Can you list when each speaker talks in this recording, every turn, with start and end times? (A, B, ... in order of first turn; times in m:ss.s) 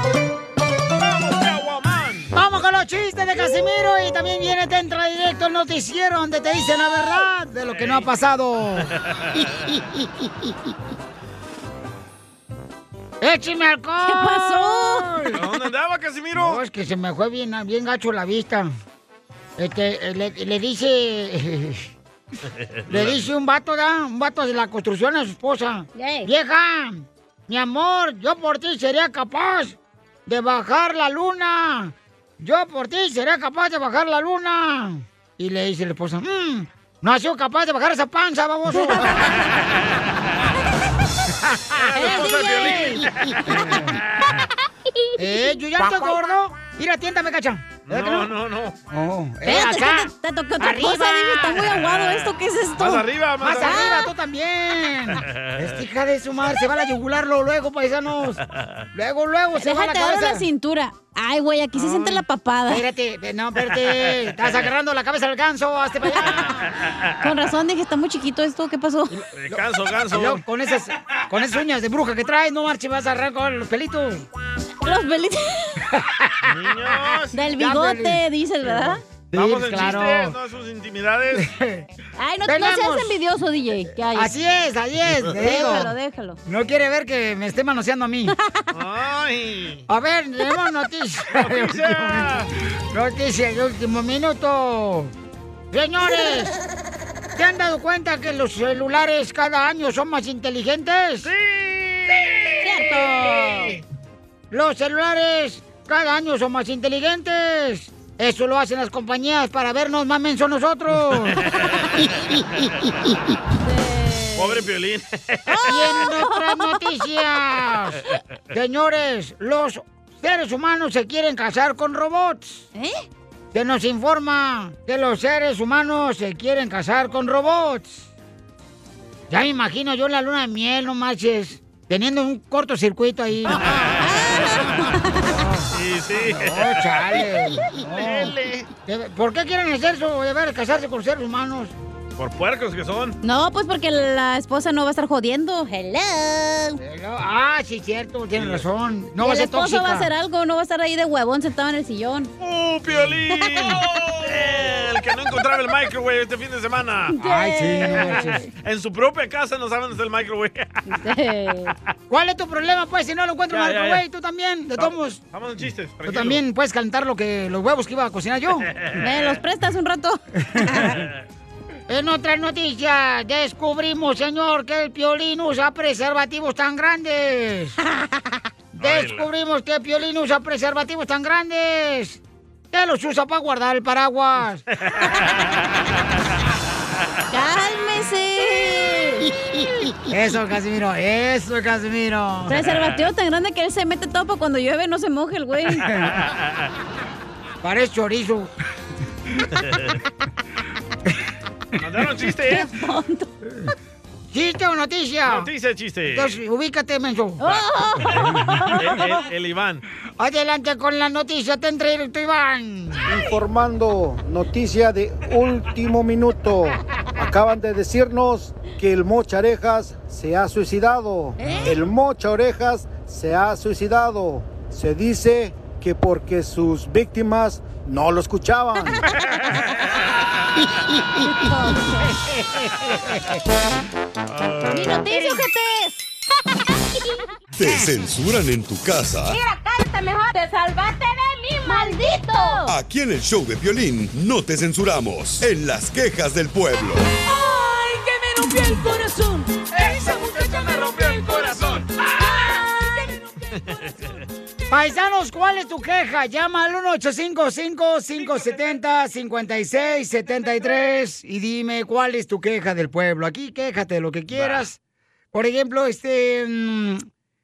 0:01.0-0:02.3 A
0:02.3-0:08.9 B
0:07.7-0:08.1 A
0:09.0-0:09.8 A
0:13.2-0:15.4 B
0:14.0-0:15.1 C
0:15.3-0:16.6 A
0:16.4-0:18.7 B
0:19.6-0:21.8 B
0:22.8-0:23.2 A
0:22.9-0:39.3 B
0:25.9-0:26.3 C
0:41.5-0:44.0 B
0:41.9-0:44.3 A
0:41.9-0:43.0 C
0:45.2-0:48.3 B
0:47.9-0:48.8 A
0:48.9-0:51.7 B
0:49.4-0:53.1 C
0:52.8-0:53.8 A
0:53.4-0:58.4 B
0:53.6-0:54.1 C
0:55.2-0:55.8 A
0:58.5-0:58.8 A
0:58.9-1:00.4 B
0:59.6-1:02.8 C
1:01.8-1:02.2 A
1:02.7-1:06.6 B
1:03.7-1:04.7 A
1:06.1-1:06.6 C
1:06.4-1:07.1 A
1:07.2-1:09.1 C
1:09.2-1:14.2 B
1:09.3-1:10.4 A
1:14.8-1:15.8 C
1:15.9-1:16.5 B
1:16.4-1:17.4 A
1:17.3-1:19.0 C
1:17.6-1:18.8 B
1:19.3-1:21.5 A
1:19.3-1:20.3 B
1:21.4-1:21.8 B
1:22.2-1:24.3 C
1:22.4-1:23.2 B
1:24.1-1:25.9 B
1:25.4-1:26.4 C
1:26.4-1:28.4 B
1:28.4-1:28.7 C
1:28.7-1:29.8 A
1:29.9-1:32.4 B
1:31.3-1:32.5 A
1:32.9-1:35.1 B
1:35.7-1:36.5 B
1:37.4-1:41.3 B
1:41.2-1:43.7 A
1:42.6-1:43.8 C
1:44.5-1:51.4 B
1:51.4-1:52.1 A
1:53.6-1:54.6 C
1:54.4-1:56.0 A
1:55.5-1:56.8 C
1:55.6-2:02.7 B
2:02.7-2:03.0 C
2:03.5-2:08.1 B
2:09.3-2:14.0 B
2:13.6-2:14.9 A
2:13.8-2:15.3 C
2:15.3-2:18.3 B
2:15.7-2:18.7 A
2:18.8-2:21.7 B
2:22.2-2:23.2 A
2:23.2-2:26.8 C
2:26.8-2:30.1 B
2:28.4-2:28.6 A
2:29.2-2:32.3 C
2:32.4-2:37.2 A
2:32.9-2:33.6 B
2:37.1-2:38.4 C
2:37.2-2:38.4 B
2:38.0-2:40.8 A
2:40.9-2:41.7 C
2:42.1-2:45.2 B
2:43.5-2:44.0 A
2:44.8-2:46.4 A
2:46.0-2:48.7 B
2:48.7-2:49.4 A
2:49.0-2:51.0 C
2:50.5-2:50.8 B
2:50.8-2:51.2 A
2:51.9-2:57.8 B
2:58.8-3:02.2 B
2:58.8-2:59.3 A
3:02.7-3:04.6 B
3:04.8-3:05.4 A
3:07.3-3:09.3 C
3:10.1-3:12.5 B
3:12.5-3:15.9 C
3:15.9-3:16.2 B
3:16.1-3:16.6 A
3:17.6-3:18.5 B
3:19.6-3:20.0 A
3:21.8-3:22.7 A
3:22.5-3:23.3 C
3:23.4-3:23.7 B
3:24.3-3:25.5 B
3:25.2-3:26.4 A
3:26.0-3:27.4 B
3:27.4-3:29.2 C
3:27.5-3:29.8 A
3:30.2-3:33.0 B
3:33.1-3:49.0 D
3:41.4-3:41.8 C
3:51.2-3:52.1 C
3:52.6-3:53.2 B
3:54.3-3:55.0 A
3:54.7-3:56.0 C
3:56.9-3:57.2 E
3:57.6-3:59.4 F
3:59.3-4:02.6 E
4:01.7-4:02.7 C
4:02.7-4:07.1 F
4:07.2-4:12.9 E
4:11.3-4:11.5 A
4:13.5-4:14.2 A
4:14.7-4:24.8 B
4:24.3-4:24.7 A
4:25.3-4:27.1 B